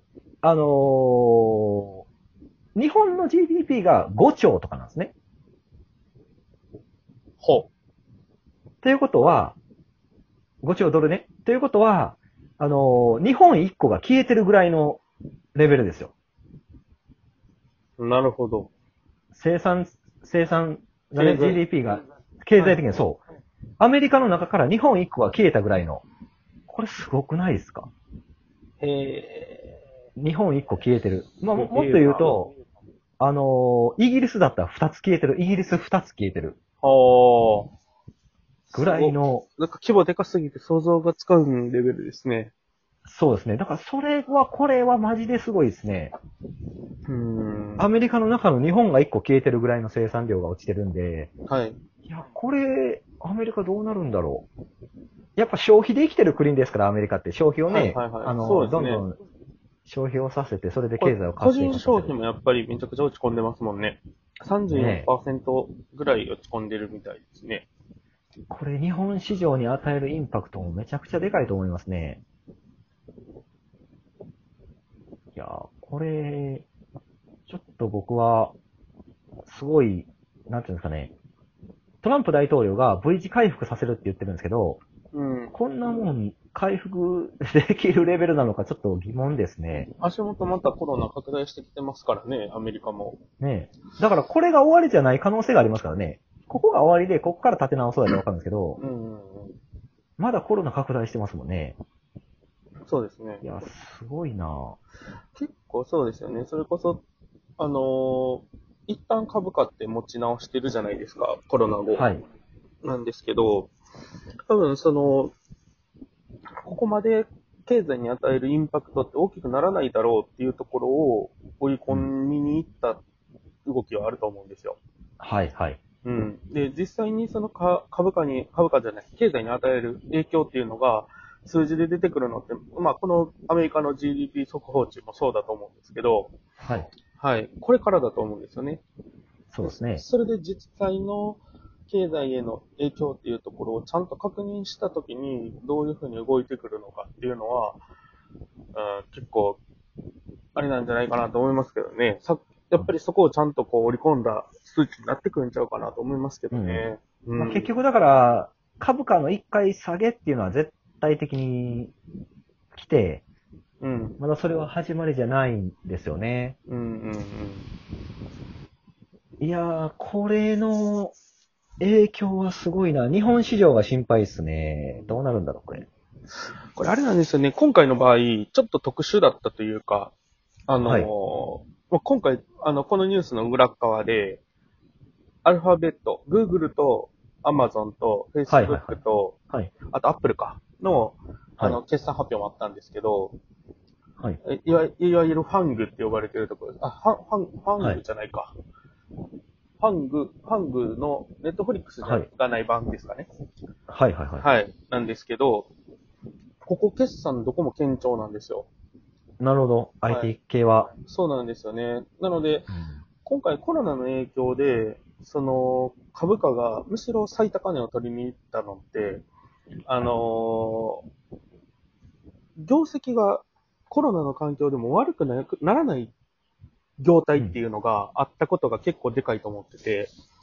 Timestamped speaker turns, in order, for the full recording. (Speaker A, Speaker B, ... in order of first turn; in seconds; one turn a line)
Speaker A: 0.4-2.0
Speaker A: 2.8-5.1
Speaker B: 7.4-7.7
Speaker A: 8.8-9.6
Speaker A: 10.6-15.0
Speaker A: 15.6-16.1
Speaker B: 18.0-18.7
Speaker A: 19.3-23.2
Speaker B: 21.2-21.6
Speaker B: 22.6-22.8
Speaker A: 23.8-26.0
Speaker A: 26.7-27.9
Speaker B: 28.8-29.8
Speaker A: 30.2-32.5
Speaker B: 31.6-32.4
Speaker A: 33.2-36.6
Speaker B: 36.8-37.7
Speaker B: 38.7-42.5
Speaker A: 38.7-39.5
Speaker A: 43.1-46.1
Speaker B: 47.1-47.9
Speaker A: 47.8-51.3
Speaker B: 51.5-51.8
Speaker A: 52.1-54.5
Speaker A: 55.4-59.2
Speaker B: 57.7-59.0
Speaker A: 59.9-62.1
Speaker B: 61.0-67.7
Speaker A: 64.7-65.1
Speaker A: 68.5-72.2
Speaker A: 75.3-76.7
Speaker A: 77.5-78.5
Speaker A: 79.5-81.1
Speaker A: 82.0-84.8
Speaker B: 85.1-85.5
Speaker A: 85.5-89.9
Speaker B: 90.0-93.2
Speaker A: 93.4-98.8
Speaker B: 98.8-99.6
Speaker A: 100.2-101.8
Speaker B: 102.9-103.5
Speaker A: 103.4-104.8
Speaker B: 105.3-107.0
Speaker B: 107.6-112.1
Speaker A: 111.9-112.2
Speaker B: 112.8-113.7
Speaker B: 114.5-115.3
Speaker B: 116.6-123.0
Speaker B: 123.7-124.8
Speaker A: 125.2-125.8
Speaker B: 126.0-136.3
Speaker A: 136.6-136.9
Speaker B: 137.2-138.8
Speaker A: 139.5-140.1
Speaker B: 139.6-147.8
Speaker B: 148.7-149.6
Speaker B: 150.6-157.7
Speaker A: 156.5-156.8
Speaker A: 157.4-161.9
Speaker A: 162.7-163.2
Speaker B: 163.8-164.2
Speaker A: 164.2-166.6
Speaker B: 166.7-167.7
Speaker A: 169.4-171.2
Speaker A: 171.8-175.9
Speaker B: 174.9-175.2
Speaker B: 176.8-180.1
Speaker B: 180.7-184.4
Speaker A: 180.8-181.1
Speaker B: 185.4-189.4
Speaker A: 188.5-189.0
Speaker B: 189.9-193.4
Speaker B: 194.4-198.5
Speaker B: 199.8-203.3
Speaker A: 203.9-204.4
Speaker B: 204.4-205.7
Speaker B: 206.6-208.7
Speaker A: 209.4-210.9
Speaker B: 211.0-212.7
Speaker A: 212.7-213.0
Speaker B: 213.2-219.2
Speaker B: 219.9-221.1
Speaker B: 222.6-226.1
Speaker B: 227.0-230.1